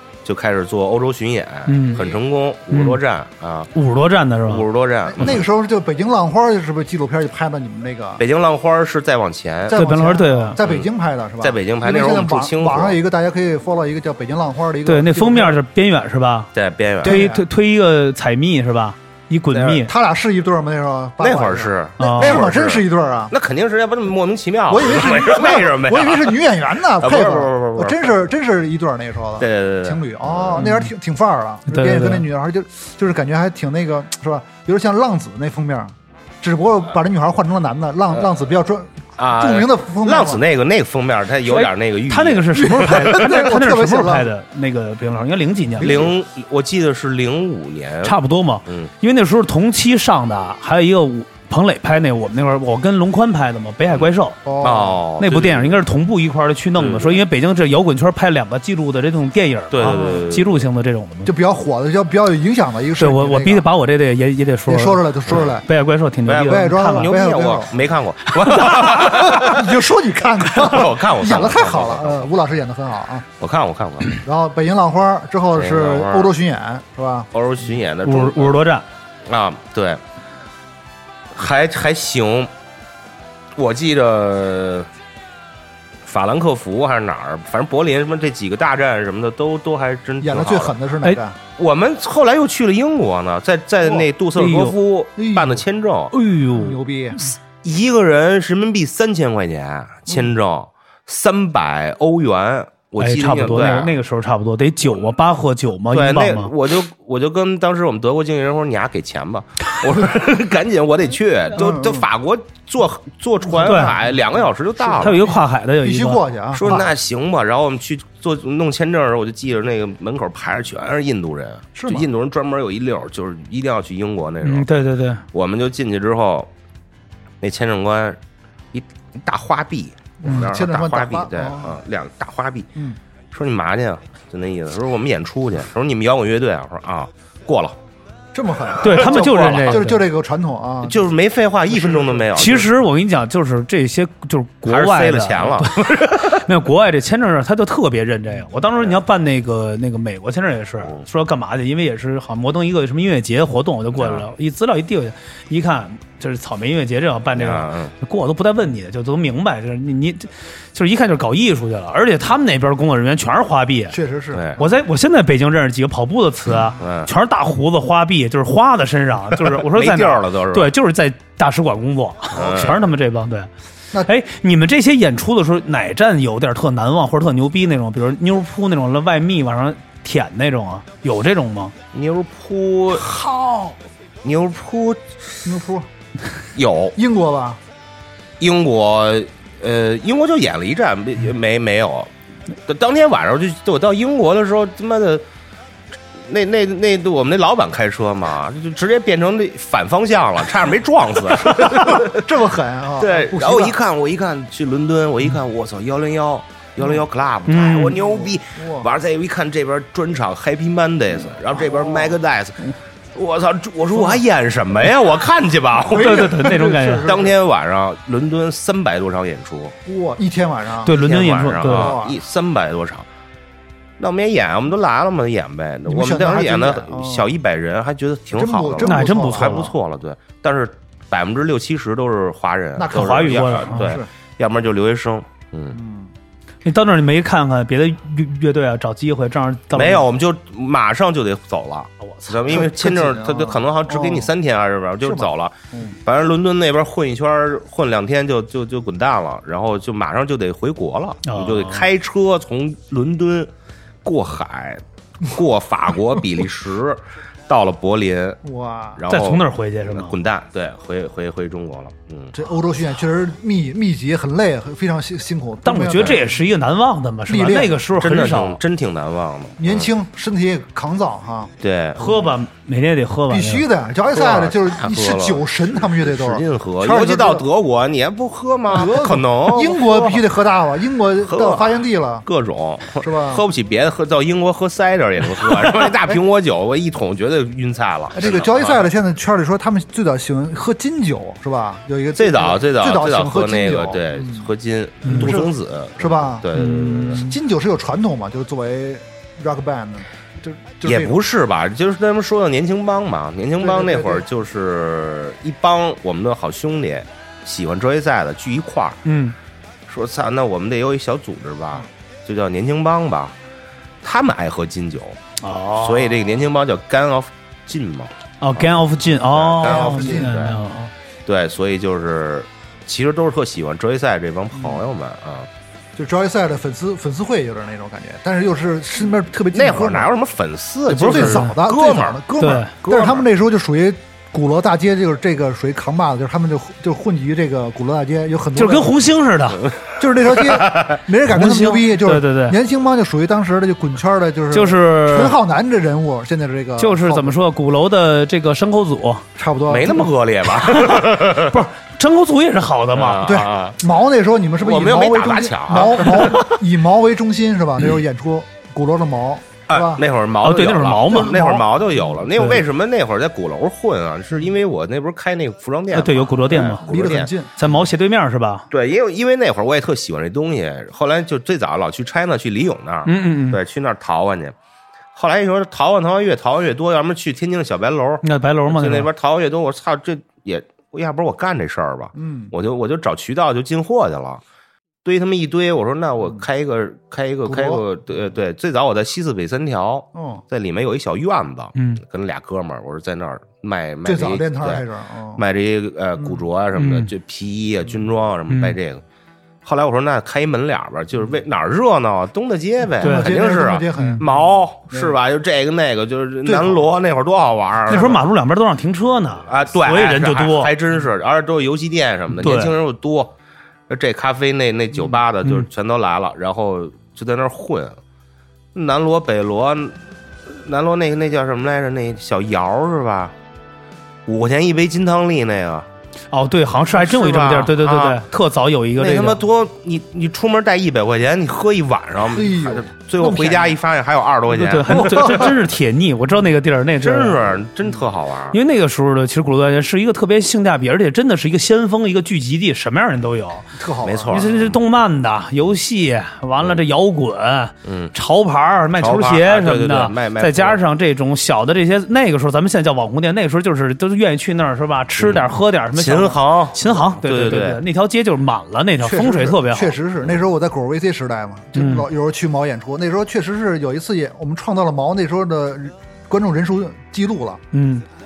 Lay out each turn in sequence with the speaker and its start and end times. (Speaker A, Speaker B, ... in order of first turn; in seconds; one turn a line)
Speaker A: 0.2-3.7
Speaker B: 1.7-2.0
Speaker B: 2.7-3.0
Speaker B: 3.7-4.7
Speaker A: 4.5-5.5
Speaker C: 5.1-8.2
Speaker A: 8.2-9.8
Speaker C: 9.7-15.6
Speaker B: 9.7-10.6
Speaker A: 10.6-10.9
Speaker A: 11.4-13.0
Speaker B: 14.9-16.5
Speaker A: 16.6-17.3
Speaker C: 17.0-17.4
Speaker B: 17.0-19.9
Speaker A: 19.5-19.9
Speaker C: 19.8-23.3
Speaker A: 21.2-26.4
Speaker B: 22.0-22.4
Speaker C: 24.7-40.4
Speaker A: 27.0-28.1
Speaker A: 29.4-30.7
Speaker B: 30.6-30.9
Speaker B: 31.7-32.3
Speaker A: 39.2-43.4
Speaker B: 41.5-46.1
Speaker C: 42.6-44.3
Speaker C: 45.8-46.1
Speaker A: 45.8-48.9
Speaker B: 48.0-54.4
Speaker A: 53.9-55.8
Speaker C: 54.5-55.0
Speaker B: 55.2-61.3
Speaker A: 56.8-57.2
Speaker A: 59.7-60.6
Speaker C: 59.9-60.3
Speaker C: 61.3-63.7
Speaker B: 63.0-65.1
Speaker C: 64.7-65.7
Speaker A: 65.3-65.5
Speaker B: 65.7-67.1
Speaker A: 66.3-69.8
Speaker C: 66.4-67.8
Speaker B: 68.4-69.0
Speaker C: 68.6-73.3
Speaker A: 70.5-72.3
Speaker A: 73.4-74.2
Speaker C: 74.2-77.3
Speaker A: 75.5-76.3
Speaker A: 77.3-78.6
Speaker B: 78.0-78.8
Speaker A: 79.3-80.0
Speaker A: 81.3-82.5
Speaker A: 83.6-84.9
Speaker A: 86.0-90.7
Speaker C: 90.2-91.4
Speaker A: 91.6-96.1
Speaker B: 94.3-94.8
Speaker C: 95.2-95.6
Speaker B: 96.1-96.8
Speaker C: 96.5-97.2
Speaker A: 97.6-103.9
Speaker B: 103.0-106.5
Speaker A: 105.9-115.2
Speaker C: 111.6-112.0
Speaker B: 113.6-114.0
Speaker B: 115.0-116.2
Speaker C: 115.0-116.9
Speaker A: 116.5-124.7
Speaker C: 121.8-122.1
Speaker B: 124.4-125.2
Speaker A: 125.3-126.5
Speaker A: 127.4-128.2
Speaker A: 128.7-132.7
Speaker C: 130.2-131.8
Speaker A: 133.3-137.8
Speaker C: 138.3-141.0
Speaker B: 138.8-140.0
Speaker A: 138.8-139.9
Speaker A: 140.8-142.7
Speaker C: 141.7-142.5
Speaker B: 142.3-164.0
Speaker A: 144.7-146.4
Speaker A: 153.9-154.3
Speaker A: 157.3-157.9
Speaker C: 163.9-164.6
Speaker A: 164.3-164.6
Speaker B: 164.6-173.5
Speaker A: 166.8-167.1
Speaker A: 169.5-170.7
Speaker A: 172.3-172.8
Speaker B: 174.1-181.8
Speaker A: 181.9-183.2
Speaker A: 184.2-185.4
Speaker C: 185.4-185.9
Speaker A: 186.6-187.0
Speaker C: 187.0-187.6
Speaker A: 188.4-192.1
Speaker A: 192.7-195.2
Speaker A: 196.2-202.4
Speaker C: 201.7-203.8
Speaker A: 203.0-216.5
Speaker B: 207.5-208.0
Speaker C: 207.9-208.9
Speaker C: 211.7-212.1
Speaker C: 215.9-217.3
Speaker B: 215.9-217.1
Speaker A: 217.1-219.8
Speaker C: 219.8-221.0
Speaker B: 220.8-222.0
Speaker A: 220.9-223.1
Speaker C: 221.6-222.2
Speaker A: 224.0-235.8
Speaker C: 225.9-227.3
Speaker C: 228.3-229.7
Speaker B: 228.8-229.7
Speaker C: 232.8-234.1
Speaker B: 232.9-234.0
Speaker C: 235.7-236.1
Speaker B: 236.6-240.1
Speaker A: 239.7-245.6
Speaker C: 242.4-244.3
Speaker C: 245.1-246.0
Speaker A: 246.1-253.5
Speaker B: 251.2-251.9
Speaker A: 254.0-258.4
Speaker C: 258.4-259.0
Speaker A: 259.0-262.4
Speaker B: 259.1-260.1
Speaker C: 262.3-266.2
Speaker B: 265.6-268.6
Speaker C: 267.3-267.8
Speaker A: 268.0-269.9
Speaker C: 269.6-272.2
Speaker A: 271.6-272.0
Speaker B: 272.0-273.7
Speaker C: 273.3-277.4
Speaker A: 274.1-280.2
Speaker C: 278.7-282.3
Speaker A: 281.2-288.9
Speaker C: 283.0-283.4
Speaker C: 288.1-294.5
Speaker A: 292.1-297.2
Speaker B: 295.1-295.3
Speaker C: 295.1-296.5
Speaker B: 296.5-297.4
Speaker C: 297.2-301.2
Speaker A: 300.8-309.0
Speaker C: 303.6-304.3
Speaker B: 309.1-309.4
Speaker A: 309.9-313.4
Speaker A: 314.0-315.2
Speaker B: 315.4-316.3
Speaker A: 315.8-320.6
Speaker B: 318.4-320.9
Speaker C: 319.6-320.6
Speaker A: 321.3-325.5
Speaker C: 326.0-330.1
Speaker A: 329.5-332.2
Speaker C: 330.9-339.0
Speaker B: 331.0-331.5
Speaker B: 332.4-332.7
Speaker A: 332.8-333.2
Speaker B: 338.6-339.6
Speaker A: 339.8-341.0
Speaker C: 340.0-347.4
Speaker B: 341.3-342.6
Speaker B: 344.5-345.4
Speaker B: 346.8-349.2
Speaker C: 349.4-350.1
Speaker A: 349.7-351.6
Speaker B: 350.5-353.4
Speaker A: 352.9-353.8
Speaker C: 353.2-360.0
Speaker A: 354.6-356.5
Speaker A: 359.7-367.3
Speaker B: 360.4-361.6
Speaker C: 361.1-361.6
Speaker B: 362.4-362.6
Speaker B: 365.9-366.9
Speaker C: 366.6-367.5
Speaker B: 367.6-368.7
Speaker A: 368.7-374.6
Speaker B: 373.1-373.6
Speaker A: 375.1-384.4
Speaker B: 378.2-379.1
Speaker C: 382.2-382.5
Speaker A: 385.0-394.9
Speaker C: 387.4-387.8
Speaker C: 390.1-390.4
Speaker B: 391.8-392.0
Speaker C: 394.0-395.4
Speaker A: 395.4-399.0
Speaker B: 396.8-397.1
Speaker B: 398.5-398.8
Speaker A: 399.6-408.2
Speaker C: 403.0-405.2
Speaker B: 403.0-403.4
Speaker C: 406.4-406.9
Speaker B: 407.9-410.7
Speaker A: 409.5-413.3
Speaker B: 412.3-412.8
Speaker A: 413.9-418.0
Speaker C: 414.9-415.2
Speaker A: 418.8-423.3
Speaker A: 424.3-425.9
Speaker B: 426.3-429.4
Speaker A: 426.9-428.2
Speaker A: 429.0-435.6
Speaker C: 432.3-433.8
Speaker B: 434.5-437.6
Speaker C: 434.9-435.5
Speaker A: 437.0-438.6
Speaker B: 438.5-443.7
Speaker C: 443.8-444.4
Speaker A: 444.0-444.8
Speaker B: 444.3-460.0
Speaker A: 447.8-448.1
Speaker A: 449.0-450.8
Speaker A: 455.2-457.8
Speaker C: 459.0-467.6
Speaker B: 461.8-462.1
Speaker B: 467.7-468.1